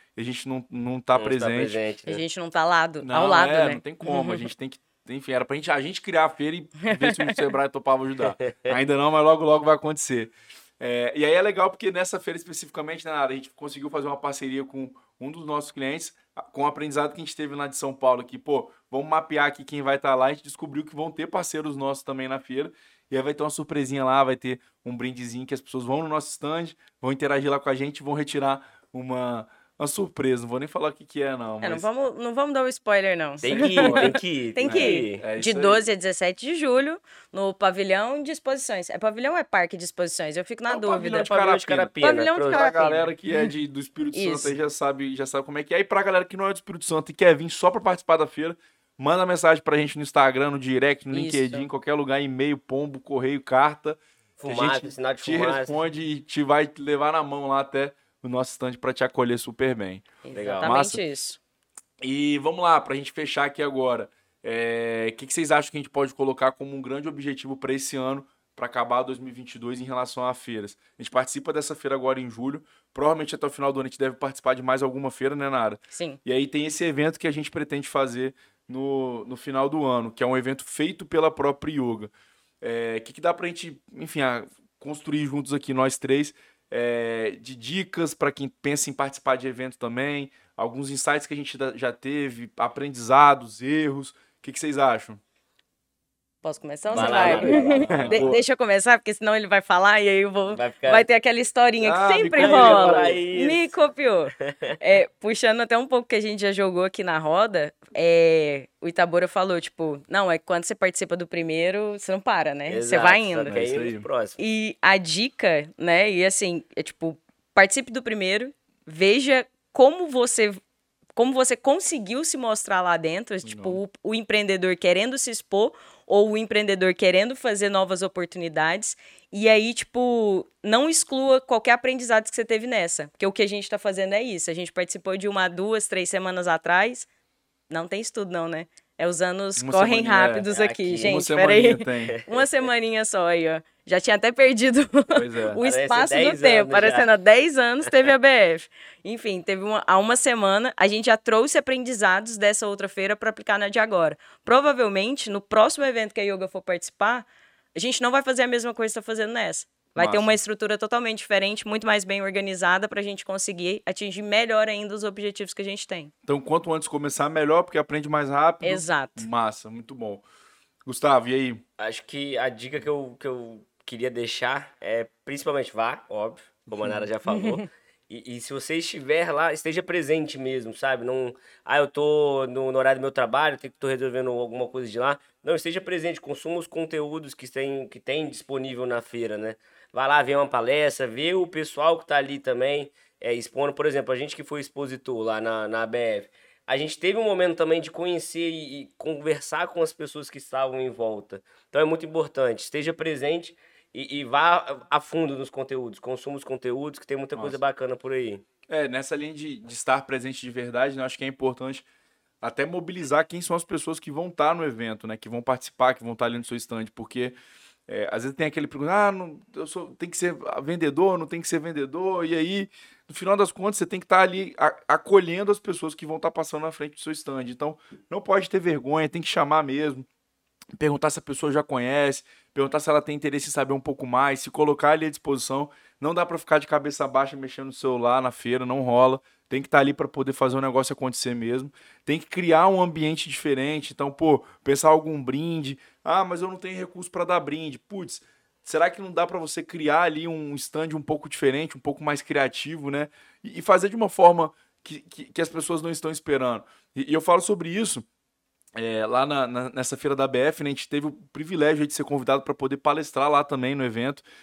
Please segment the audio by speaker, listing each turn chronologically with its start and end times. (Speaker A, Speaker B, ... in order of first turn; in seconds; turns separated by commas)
Speaker A: 0.2-1.8, Speaker B: 1.2-2.2, Speaker C: 2.1-4.5, Speaker A: 3.0-31.9, Speaker C: 6.8-7.3, Speaker B: 8.4-8.8, Speaker C: 31.6-41.4, Speaker B: 33.4-35.2, Speaker A: 33.4-35.9, Speaker A: 40.7-41.9, Speaker B: 41.1-42.8, Speaker C: 42.0-43.5, Speaker A: 42.4-60.1, Speaker C: 44.1-44.5, Speaker C: 51.1-51.7, Speaker B: 54.4-55.7, Speaker C: 60.2-61.4, Speaker B: 60.3-60.8, Speaker A: 60.6-61.0, Speaker A: 62.0-95.2, Speaker C: 75.9-76.2, Speaker C: 96.4-113.6, Speaker B: 96.9-98.3, Speaker A: 96.9-98.4, Speaker B: 100.5-101.1, Speaker A: 101.8-103.2, Speaker B: 102.4-103.7, Speaker B: 104.4-104.8, Speaker B: 112.7-114.4, Speaker A: 113.5-114.1, Speaker C: 114.4-120.6, Speaker C: 121.2-137.1, Speaker A: 123.4-123.8, Speaker C: 137.7-166.1, Speaker A: 139.6-140.5, Speaker B: 140.5-141.2, Speaker A: 141.0-142.2, Speaker B: 142.1-142.5, Speaker A: 145.1-145.6, Speaker B: 145.6-147.1, Speaker A: 160.0-160.4, Speaker A: 166.2-170.2, Speaker C: 168.6-169.3, Speaker A: 170.9-171.6, Speaker B: 171.8-208.4, Speaker A: 176.7-177.1, Speaker C: 177.3-177.7, Speaker A: 208.7-211.9, Speaker A: 212.4-217.3, Speaker A: 217.9-230.1, Speaker A: 230.8-258.1, Speaker A: 258.8-264.2